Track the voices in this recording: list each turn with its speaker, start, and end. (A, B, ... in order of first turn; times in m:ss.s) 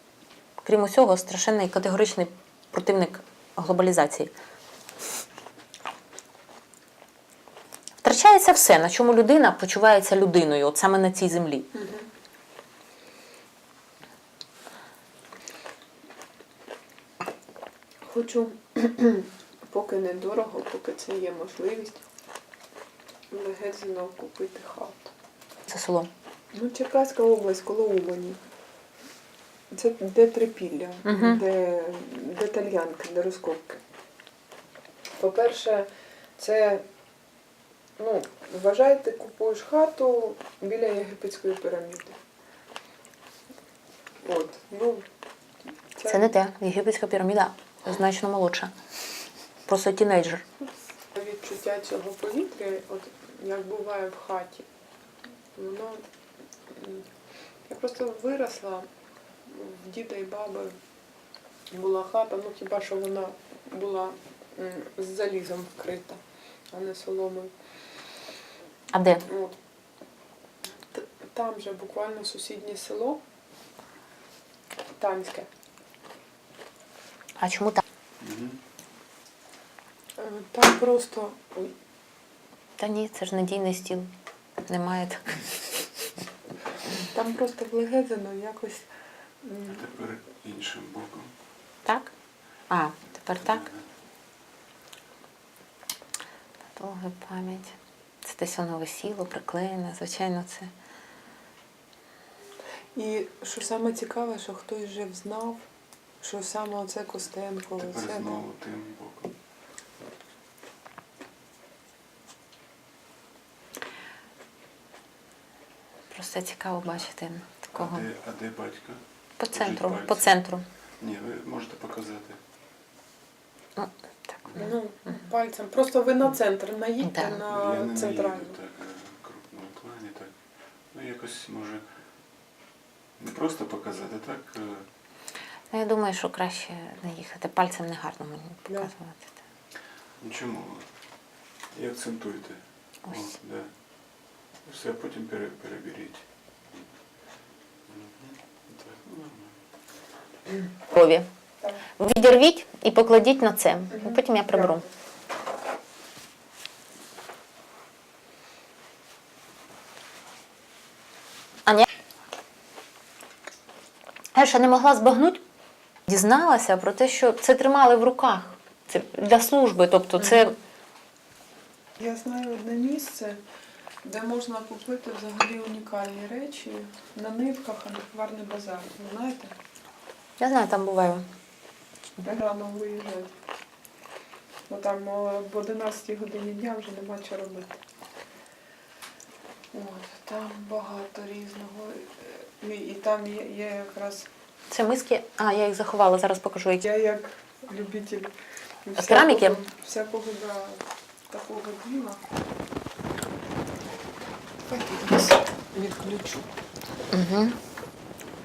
0:00.6-0:04.3 A
0:08.0-0:11.7 A
0:11.7-0:12.1 B
0:18.0-0:22.0 B
0:23.3-0:25.1 B
0:25.7-0:26.1 A
0:26.5-0:28.4 B
0:29.7-0:33.8 B
0:31.0-0:31.4 A
0:35.2-0:36.8 B
0:38.0-0:42.1 B
0:44.2-0:45.0 B
0:46.0-0:46.3 B
0:46.0-0:48.7 A
0:49.6-0:50.4 A
0:51.2-0:54.6 B
0:55.5-0:56.0 B
0:56.7-0:57.0 B
0:57.7-0:58.9 B
0:59.4-1:00.7 B
1:01.7-1:06.2 B
1:06.7-1:07.5 B
1:08.9-1:09.2 A
1:09.2-1:09.5 B
1:10.9-1:13.2 B
1:15.0-1:15.5 B
1:17.4-1:17.8 A
1:18.2-1:18.6 C
1:20.2-1:21.7 B
1:22.8-1:24.1 A
1:24.6-1:25.4 A
1:27.1-1:28.8 B
1:29.4-1:29.8 B
1:29.7-1:31.3 C
1:31.8-1:32.1 A
1:32.7-1:33.7 A
1:33.6-1:33.8 C
1:36.7-1:40.7 A
1:42.9-1:45.6 B
1:46.2-1:48.4 B
1:47.8-1:49.3 C
1:56.1-1:58.0 A
1:57.7-2:00.4 C
1:59.4-2:00.6 A
2:01.0-2:02.4 C
2:03.8-2:04.7 A
2:04.5-2:08.6 B
2:07.0-2:07.4 A
2:07.5-2:10.3 C
2:10.9-2:11.9 C
2:13.2-2:14.9 C
2:15.7-2:19.4 A
2:20.2-2:20.9 C
2:21.7-2:23.7 C
2:24.6-2:26.2 C
2:27.9-2:29.5 C
2:30.9-2:31.3 A
2:32.0-2:34.8 A
2:33.9-2:34.8 B
2:44.3-2:45.4 A
2:46.1-2:50.5 A
2:52.0-2:53.4 B
2:54.0-2:59.5 B
3:00.4-3:01.3 A
3:02.2-3:03.3 B
3:04.7-3:07.8 B
3:09.7-3:14.3 B
3:14.7-3:16.8 A
3:16.8-3:18.3 B
3:18.8-3:22.2 B
3:19.0-3:19.6 A
3:24.7-3:26.5 B
3:27.1-3:27.6 A